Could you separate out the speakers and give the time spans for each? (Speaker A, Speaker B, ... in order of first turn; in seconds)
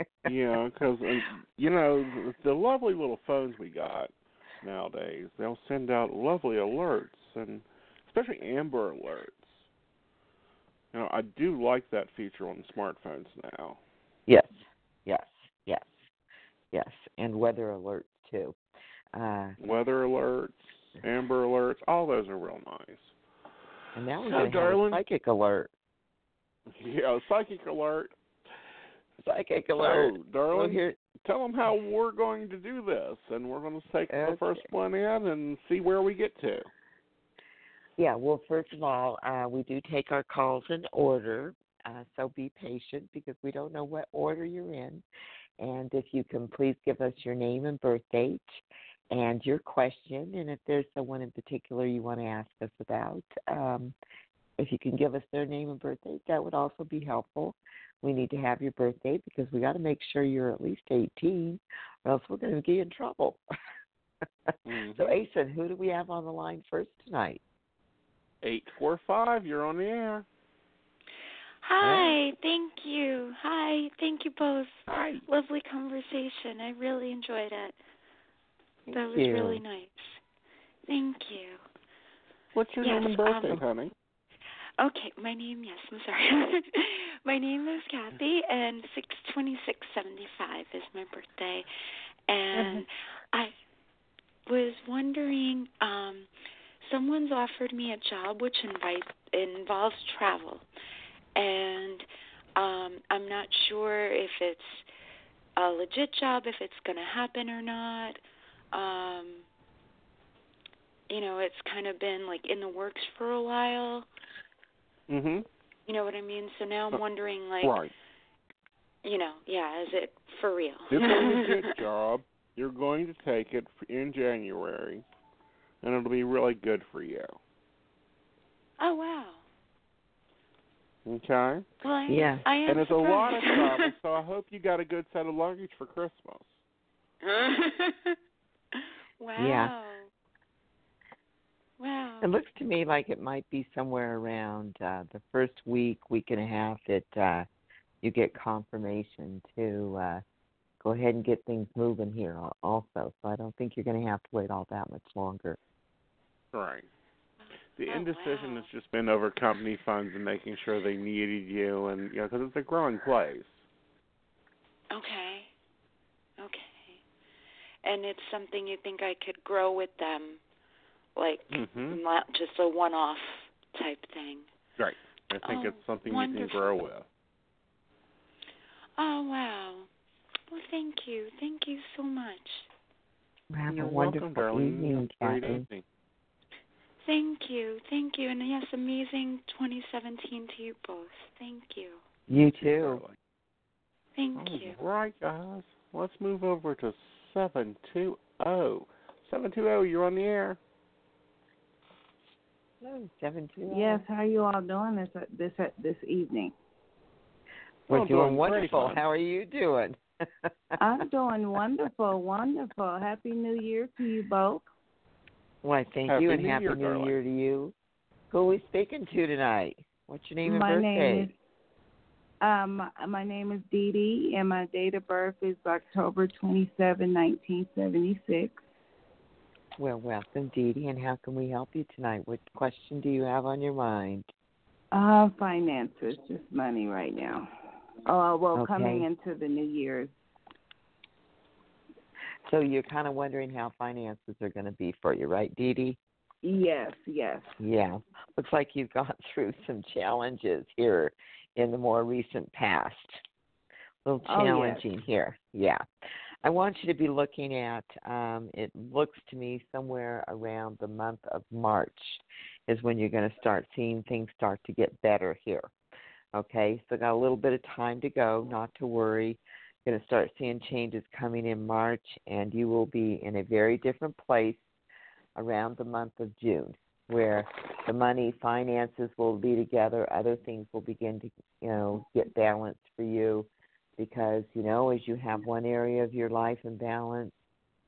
Speaker A: 0.3-9.6, 10.9-13.8, 19.6-23.1, 24.2-25.0, 26.7-28.1, 29.8-36.7, 64.6-65.2, 68.4-70.3, 74.9-75.3, 82.5-83.9, 115.1-115.5, 117.6-117.9, 120.9-125.0, 125.8-127.4, 131.1-131.6, 132.7-136.6, 156.5-156.9, 157.8-163.6, 171.5-172.0, 174.8-177.1, 183.7-185.8, 192.3-193.2, 194.4-200.6, 207.9-209.0, 216.1-217.2
Speaker B: 14.3-16.0, 16.7-18.6, 19.1-19.6, 23.9-25.7, 29.2-30.9, 34.1-34.7, 38.0-45.0, 45.6-48.4, 49.1-54.0, 54.6-63.4, 64.5-67.4, 78.9-79.6, 132.1-132.4, 139.4-139.7, 142.2-147.5, 148.0-150.2, 150.8-155.6, 183.5-185.6, 192.3-193.0, 202.8-204.0, 207.9-210.8, 215.6-217.7, 218.3-221.3, 229.8-234.3, 238.5-239.1, 242.4-246.0, 247.6-253.2, 254.1-255.8, 256.4-265.7, 266.3-274.6, 275.4-283.5, 284.0-287.3
Speaker C: 71.6-77.8, 78.9-80.2, 80.9-81.6, 82.8-83.7, 84.8-91.7, 92.3-93.5, 94.5-96.3, 96.8-100.6, 101.4-104.8, 105.6-108.2, 108.7-109.5, 111.1-114.1, 115.9-117.9, 119.0-121.8, 128.8-129.4, 131.8-133.9, 137.2-138.2, 139.2-140.1, 141.8-142.4, 157.4-158.7, 164.9-165.5, 166.4-167.0, 167.8-170.4, 171.2-174.5, 175.4-176.9, 179.0-179.9, 180.5-182.7, 187.0-192.0, 194.1-194.8
Speaker D: 203.7-206.6, 210.8-214.7, 220.4-221.4, 222.4-228.6, 234.9-237.5, 238.1-240.1, 246.4-247.5, 254.3-254.8